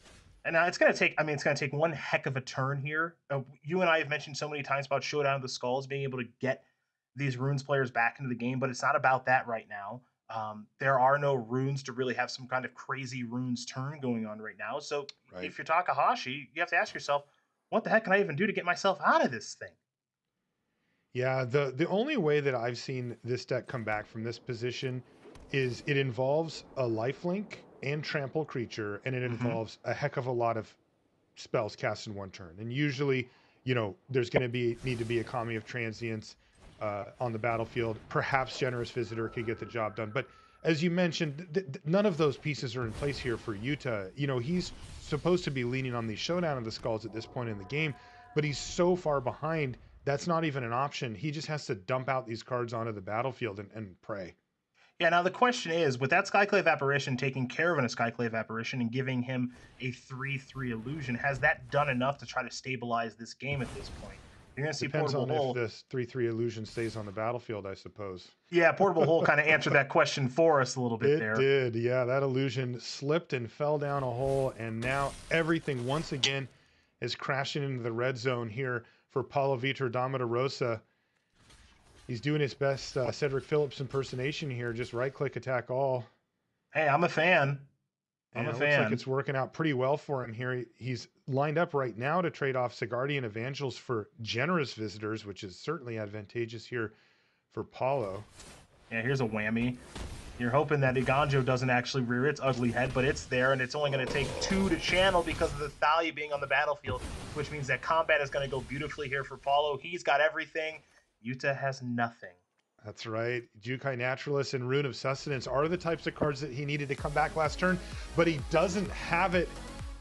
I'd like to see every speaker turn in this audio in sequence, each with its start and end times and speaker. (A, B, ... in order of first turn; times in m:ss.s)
0:00.4-0:19.8 A
0:21.1-0:30.8 B
0:29.3-0:29.6 A
0:31.4-0:54.4 B
0:55.0-1:05.6 A
1:04.8-1:08.4 B
1:08.5-1:11.4 A
1:11.0-1:20.8 B
1:22.1-1:26.1 B
1:26.7-1:27.7 A
1:28.3-1:37.0 B
1:28.4-1:29.0 A
1:37.5-1:38.3 B
1:38.9-1:39.8 A
1:40.4-1:52.4 A
1:52.8-1:59.6 B